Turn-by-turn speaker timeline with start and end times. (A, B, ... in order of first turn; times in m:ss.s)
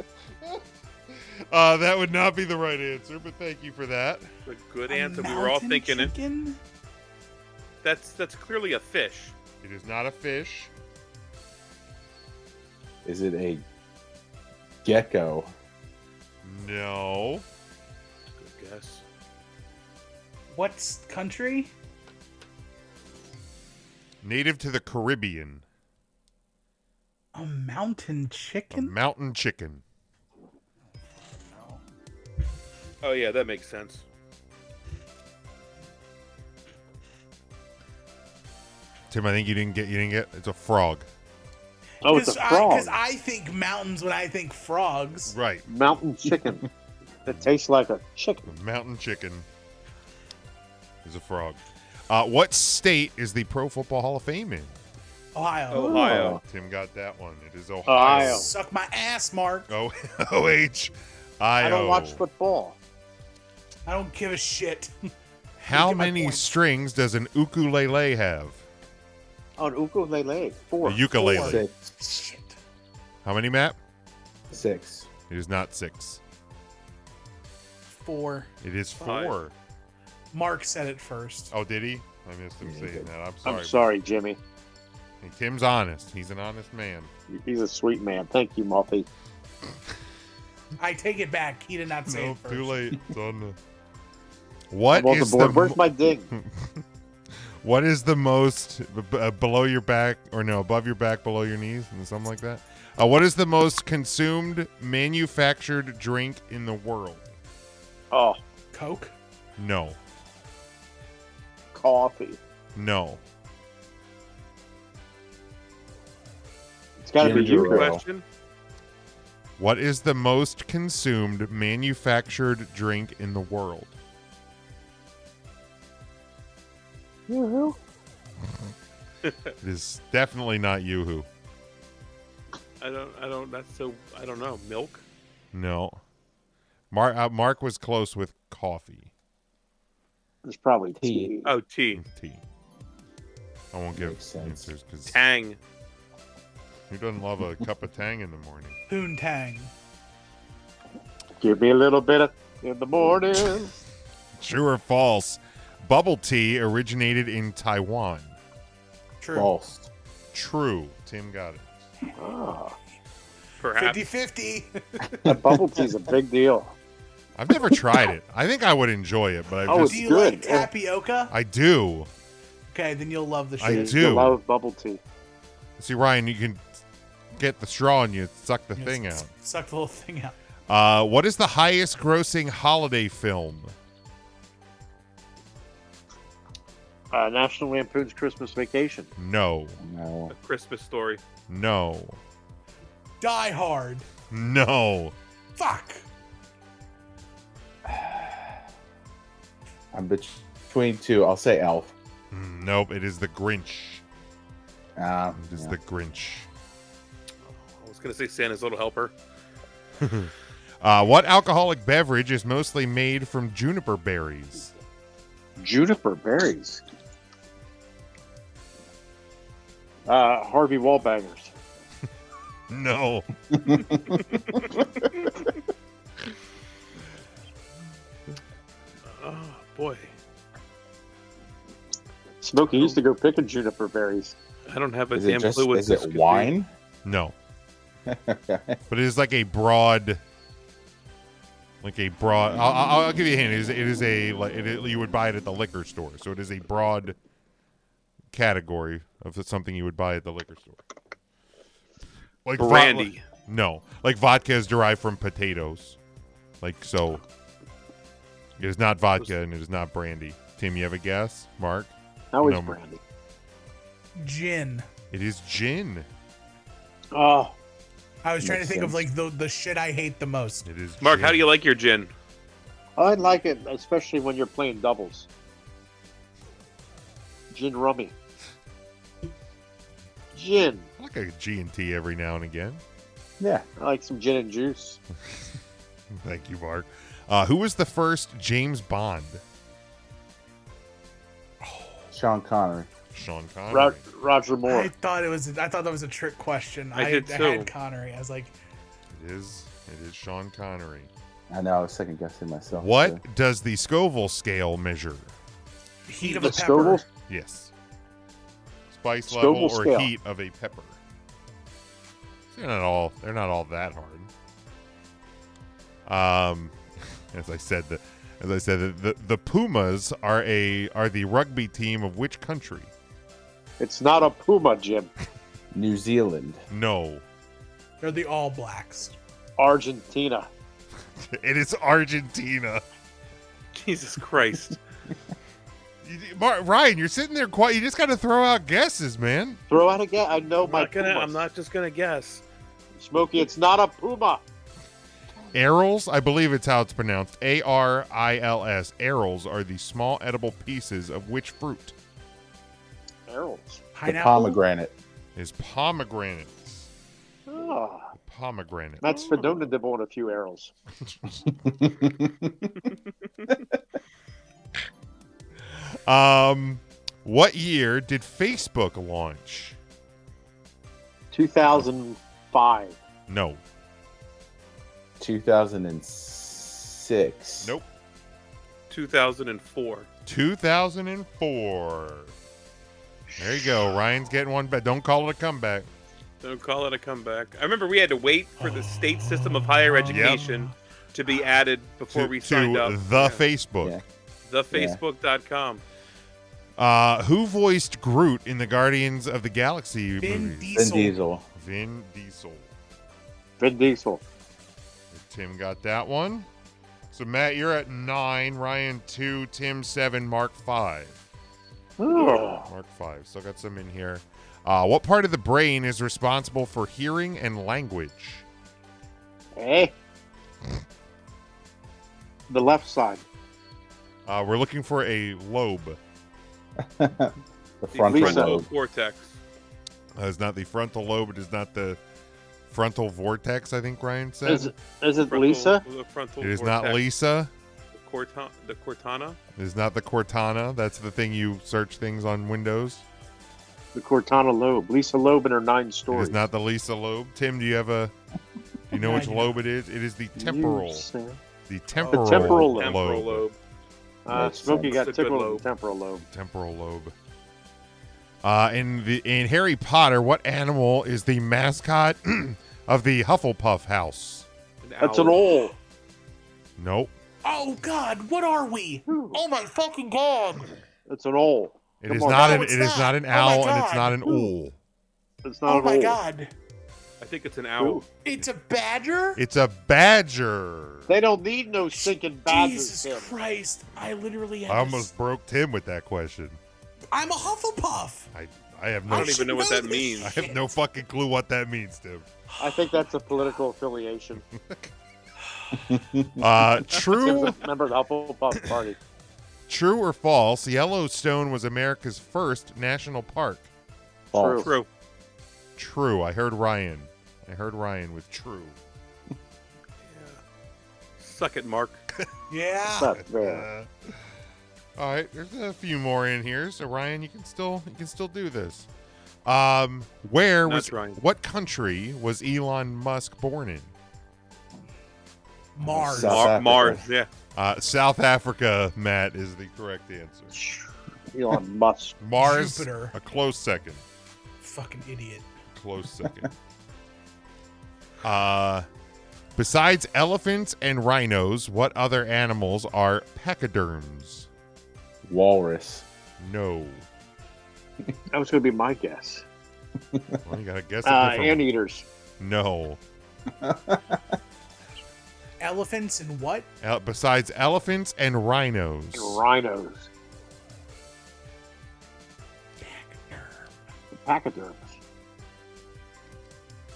0:00.4-0:04.3 A
0:04.4-0:06.1 B
0:04.9-0:06.6 C
0:07.8-0:09.4 B
0:09.6-0:10.7 A
0:13.0-0:13.6 D
0:14.8-0:15.5 D
0:16.4-0:17.4 A
0:18.4-0:19.0 B
0:20.5-0:21.7 C
0:24.2-0:25.6 A
0:27.3-0:28.9 C
0:28.7-0:29.8 A
0:33.0-0:34.0 B
0:39.1-0:41.1 A
0:42.0-0:45.3 C
0:42.0-0:43.0 E
0:45.3-0:46.0 A
0:45.7-0:46.7 E
0:46.3-0:46.6 D
0:47.2-0:48.5 E
0:48.5-0:49.4 A
0:51.0-0:54.7 A
0:55.3-0:56.1 C
0:55.7-0:56.4 B
0:55.8-0:56.3 E
0:56.1-0:56.4 D
0:56.1-0:58.5 A
0:57.8-0:58.5 E
0:58.0-0:59.7 C
0:59.7-1:02.2 A
1:01.6-1:02.8 E
1:03.8-1:04.9 C
1:05.6-1:08.6 A
1:05.7-1:06.4 C
1:09.6-1:11.4 E
1:10.8-1:11.6 A
1:11.1-1:12.6 C
1:11.4-1:11.7 D
1:13.2-1:13.8 A
1:14.5-1:15.1 D
1:15.3-1:16.2 A
1:17.9-1:18.5 C
1:18.6-1:19.5 A
1:19.0-1:19.4 B
1:20.3-1:21.5 C
1:21.5-1:23.8 A
1:22.6-1:23.1 D
1:23.4-1:24.4 E
1:25.2-1:27.1 A
1:27.3-1:29.1 E
1:30.8-1:32.8 C
1:32.0-1:33.6 A
1:34.7-1:36.8 A
1:34.9-1:36.3 E
1:37.6-1:47.2 A
1:48.1-1:48.4 E
1:48.7-1:49.1 C
1:49.6-1:50.0 A
1:51.7-1:52.4 E
1:52.8-1:53.2 A
1:57.0-1:58.0 E
1:57.2-1:58.0 D
1:57.2-1:58.2 B
1:59.6-2:04.0 A
2:07.3-2:07.8 E
2:09.6-2:11.3 A
2:12.8-2:15.0 B
2:15.5-2:16.0 A
2:16.9-2:19.1 A
2:20.4-2:21.5 E
2:21.0-2:21.3 D
2:21.4-2:22.0 B
2:21.9-2:22.4 A
2:23.7-2:25.2 A
2:23.9-2:24.7 D
2:25.1-2:25.6 B
2:26.9-2:28.8 A
2:28.9-2:29.7 C
2:31.4-2:33.8 E
2:34.4-2:38.4 A
2:39.2-2:39.5 C
2:39.3-2:39.9 D
2:40.3-2:41.8 A
2:42.2-2:42.8 E
2:43.6-2:44.0 B
2:43.8-2:45.2 C
2:45.2-2:45.9 D
2:45.2-2:46.7 E
2:47.4-2:50.0 A
2:49.6-2:50.7 E
2:49.7-2:51.3 C
2:51.3-2:52.1 A
2:52.7-2:54.0 C
2:53.6-2:54.4 A
2:53.6-2:55.0 E
2:55.8-2:56.6 A
2:57.3-2:59.3 A
2:58.8-3:00.4 C
3:00.7-3:03.7 A
3:07.1-3:09.1 E
3:09.2-3:09.8 A
3:09.8-3:10.3 D
3:10.3-3:11.2 B
3:11.5-3:12.2 A
3:13.2-3:14.1 C
3:14.3-3:15.1 A
3:15.6-3:16.0 C
3:17.8-3:18.6 D
3:19.9-3:21.9 D
3:22.3-3:24.0 A
3:25.0-3:25.8 D
3:25.4-3:26.5 A
3:27.4-3:29.1 B
3:30.0-3:34.7 A
3:35.6-3:36.8 E
3:40.0-3:41.5 E
3:42.7-3:44.0 A
3:43.6-3:44.2 D
3:49.0-3:50.1 B
3:52.4-3:54.4 E
3:52.7-3:53.0 B
3:54.7-3:56.5 B
3:55.1-3:56.7 D
3:57.0-3:57.3 A
3:58.0-3:58.8 D
3:58.9-4:00.2 A
4:01.8-4:07.2 A
4:08.3-4:10.8 A
4:12.4-4:16.0 A
4:12.6-4:13.3 B
4:16.6-4:17.2 A
4:18.6-4:22.8 A
4:22.3-4:23.0 E
4:24.2-4:24.9 C
4:25.1-4:26.1 A
4:27.1-4:27.5 E
4:28.2-4:30.7 C
4:28.4-4:29.0 D
4:30.6-4:31.5 A
4:31.0-4:32.1 B
4:33.0-4:35.3 E
4:37.5-4:38.1 E
4:40.3-4:40.9 E
4:41.0-4:42.8 A
4:43.4-4:43.6 D
4:43.8-4:45.0 E
4:46.1-4:49.4 A
4:51.6-4:52.1 C
4:52.1-4:52.9 D
4:53.1-4:54.0 A
4:53.7-4:54.9 E
4:54.6-4:58.5 C
4:56.9-4:57.7 B
4:59.1-5:01.1 A
5:01.5-5:03.2 D
5:02.8-5:05.3 A
5:06.1-5:07.0 C
5:06.2-5:07.0 E
5:07.3-5:07.7 A
5:08.9-5:11.0 A
5:09.3-5:10.1 E
5:12.5-5:14.3 A
5:16.0-5:16.8 A
5:17.3-5:22.9 A
5:23.8-5:25.1 E
5:25.7-5:26.6 D
5:26.7-5:27.2 A
5:28.0-5:29.1 C
5:29.6-5:30.5 E
5:31.2-5:32.8 A
5:33.7-5:34.8 B
5:36.0-5:39.6 A
5:39.7-5:41.4 E
5:40.6-5:42.4 B
5:43.0-5:44.4 E
5:45.5-5:51.9 A
5:53.3-5:53.8 E
5:53.9-5:54.6 C
5:54.0-5:54.9 D
5:55.4-5:56.9 A
5:57.5-5:58.1 E
5:58.2-5:59.3 A
5:59.0-6:00.7 E
5:59.1-5:59.4 B
6:01.4-6:02.8 D
6:05.7-6:09.8 A
6:11.3-6:13.0 E
6:13.3-6:13.6 A
6:15.2-6:17.7 D
6:17.6-6:17.9 A
6:18.9-6:20.1 B
6:20.2-6:22.3 A
6:23.4-6:25.9 A
6:26.4-6:33.4 B
6:28.6-6:30.7 C
6:30.1-6:30.4 A
6:32.1-6:34.0 A
6:34.4-6:35.8 B
6:34.7-6:35.0 D
6:36.8-6:40.8 A
6:40.2-6:41.2 C
6:40.7-6:41.4 D
6:41.5-6:42.7 A
6:43.6-6:44.2 E
6:45.1-6:46.5 A
6:47.1-6:51.2 A
6:52.0-6:52.7 E
6:52.2-6:58.4 A
6:59.5-6:59.9 E
7:02.5-7:03.2 E
7:04.2-7:06.0 A
7:06.8-7:08.7 D
7:07.9-7:09.4 B
7:08.1-7:08.6 E
7:10.1-7:12.0 A
7:12.7-7:14.7 A
7:14.4-7:15.8 E
7:15.2-7:17.0 B
7:16.4-7:17.5 A
7:17.9-7:19.4 B
7:19.6-7:23.0 A
7:23.9-7:26.4 E
7:26.1-7:28.1 A
7:28.9-7:31.1 A
7:28.9-7:29.6 C
7:30.4-7:31.4 E
7:31.7-7:33.4 A
7:32.0-7:32.4 C
7:32.1-7:33.0 E
7:32.4-7:33.6 B
7:34.2-7:36.3 E
7:34.3-7:35.0 D
7:34.8-7:35.6 B
7:36.3-7:37.1 A
7:38.4-7:44.5 A
7:44.8-7:45.6 B
7:45.0-7:45.7 E
7:46.8-7:47.1 A
7:47.4-7:50.7 C
7:49.1-7:49.4 E
7:51.0-7:52.9 E
7:52.0-7:54.8 A
7:52.3-7:54.5 C
7:55.4-7:56.2 E
7:55.6-7:56.5 C
7:57.2-7:58.1 B
7:57.8-7:58.0 E
7:58.2-7:59.4 C
7:59.4-8:01.1 A
8:01.1-8:03.3 E
8:01.9-8:05.1 C
8:04.7-8:06.6 A
8:07.1-8:08.3 C
8:08.3-8:09.5 A
8:09.1-8:10.6 C
8:09.1-8:10.3 B
8:10.2-8:12.2 A
8:12.5-8:13.0 C
8:12.6-8:14.4 E
8:14.4-8:14.9 A
8:15.7-8:17.0 D
8:16.4-8:17.7 A
8:17.1-8:19.0 E
8:19.7-8:23.7 A
8:24.3-8:24.7 D
8:24.3-8:24.7 E
8:24.6-8:24.9 B
8:25.8-8:28.8 A
8:30.0-8:30.4 B
8:31.2-8:32.0 B
8:32.5-8:33.2 C
8:33.0-8:33.6 E
8:33.3-8:34.3 A
8:35.0-8:38.9 A
8:39.4-8:43.9 A
8:40.6-8:41.2 B
8:45.7-8:46.5 C
8:45.8-8:47.0 D
8:46.2-8:47.3 B
8:47.5-8:50.5 A
8:50.5-8:52.2 E
8:52.2-8:54.0 A
8:52.4-8:53.1 C
8:54.6-8:55.5 C
8:55.7-8:56.5 A
8:58.2-8:58.9 A
8:59.6-9:04.5 A
9:05.2-9:06.0 D
9:06.4-9:07.0 A
9:08.3-9:09.4 E
9:10.1-9:10.4 D
9:10.4-9:11.7 A
9:11.0-9:12.0 E
9:12.4-9:13.0 A
9:13.5-9:14.4 D
9:15.6-9:16.7 C
9:16.8-9:19.4 A
9:19.1-9:20.1 E
9:22.8-9:23.7 C
9:24.1-9:24.9 E